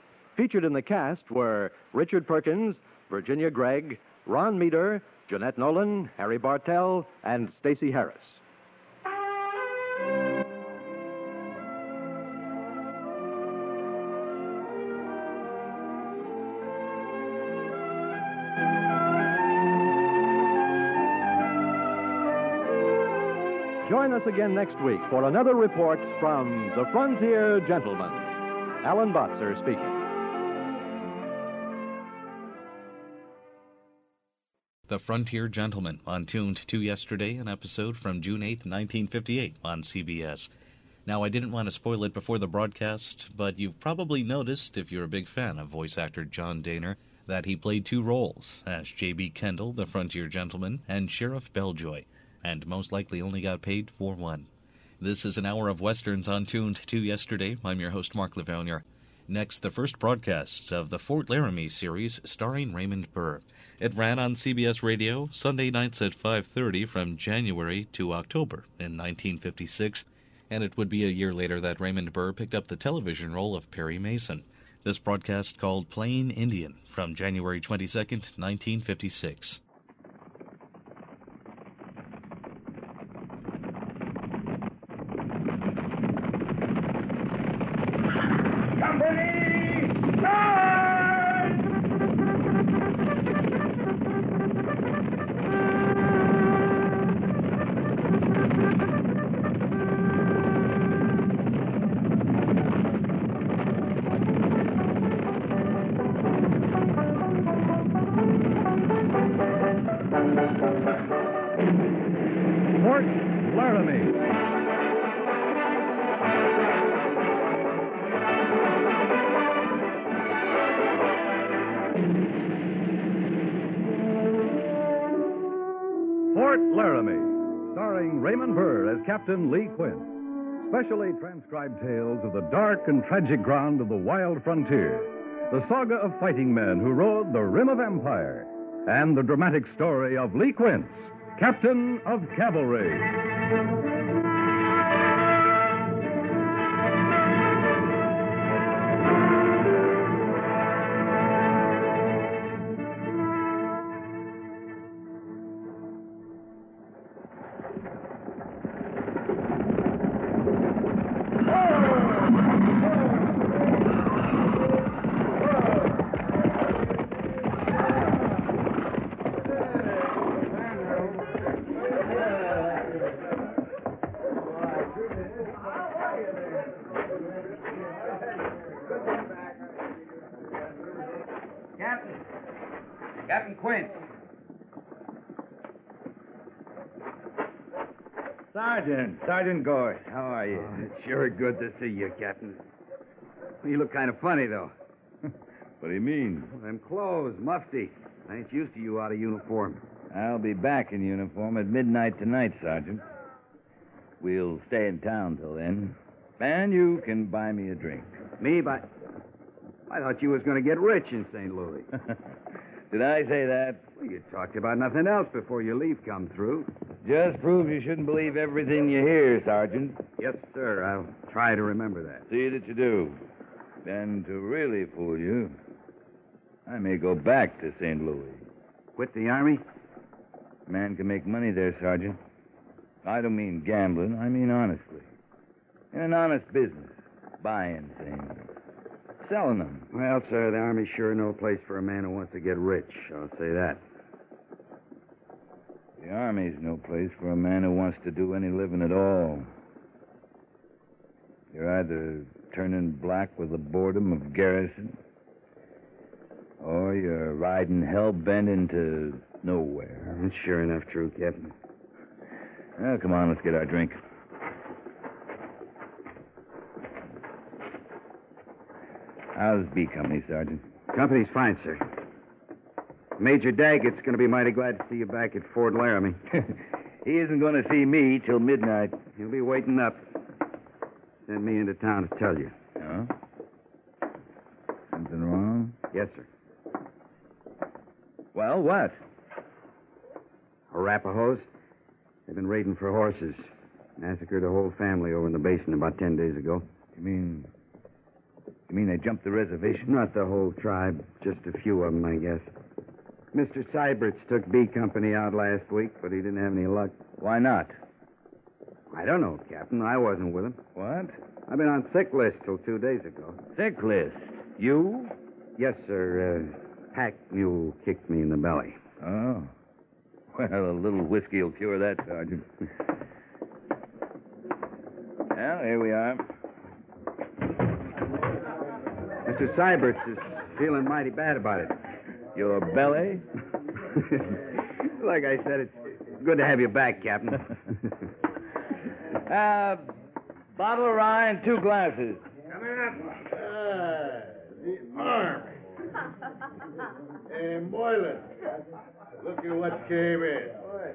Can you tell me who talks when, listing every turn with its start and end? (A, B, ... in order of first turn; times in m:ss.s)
0:00.4-0:08.4 A
0:23.8-0:30.0 A
0:34.9-0:40.5 B
0:41.1-0:54.5 B
0:55.0-1:19.6 B
1:52.8-1:54.2 C
2:06.3-2:23.1 C
3:03.3-3:04.0 D
3:08.5-3:10.8 E
3:10.5-3:12.6 D
3:13.6-3:14.7 D
3:15.8-3:16.5 E
3:16.5-3:19.8 D
3:20.1-3:23.0 E
3:24.2-3:28.2 E
3:28.4-3:28.9 D
3:29.9-3:31.9 D
3:32.9-3:33.8 E
3:34.0-3:36.7 D
3:37.0-3:40.0 E
3:40.2-3:42.2 D
3:42.3-3:43.2 E
3:43.8-3:45.6 E
3:46.7-3:48.5 E
3:49.0-3:49.6 D
3:50.7-3:52.2 E
3:53.0-3:55.1 E
3:55.9-3:58.5 E
3:59.2-3:59.9 E
3:59.9-4:03.8 D
4:06.0-4:09.5 E
4:11.5-4:15.0 E
4:16.6-4:20.1 E
4:20.0-4:21.5 D
4:22.8-4:24.0 E
4:29.4-4:30.6 E
4:30.9-4:31.8 D
4:33.2-4:36.2 D
4:36.3-4:39.0 E
4:39.2-4:40.0 D
4:41.3-4:42.5 D
4:42.8-4:43.1 E
4:44.9-4:45.8 E
4:45.9-4:46.3 D
4:48.3-4:49.0 E
4:50.7-4:51.5 D
4:52.3-4:56.7 D
4:56.9-4:57.5 E
4:58.7-4:59.9 E
4:59.8-5:02.5 D
5:03.3-5:07.0 D
5:07.2-5:07.8 E
5:08.9-5:10.6 D
5:10.8-5:11.1 E
5:11.5-5:13.4 D
5:13.6-5:15.1 E
5:15.6-5:18.8 D
5:19.0-5:19.5 E
5:20.3-5:22.4 E
5:25.3-5:26.2 E
5:29.3-5:31.8 D
5:32.4-5:33.2 E
5:35.0-5:37.5 D
5:39.3-5:39.8 E
5:40.6-5:42.2 E
5:42.5-5:45.5 F
5:47.3-5:48.2 F
5:49.2-5:50.6 F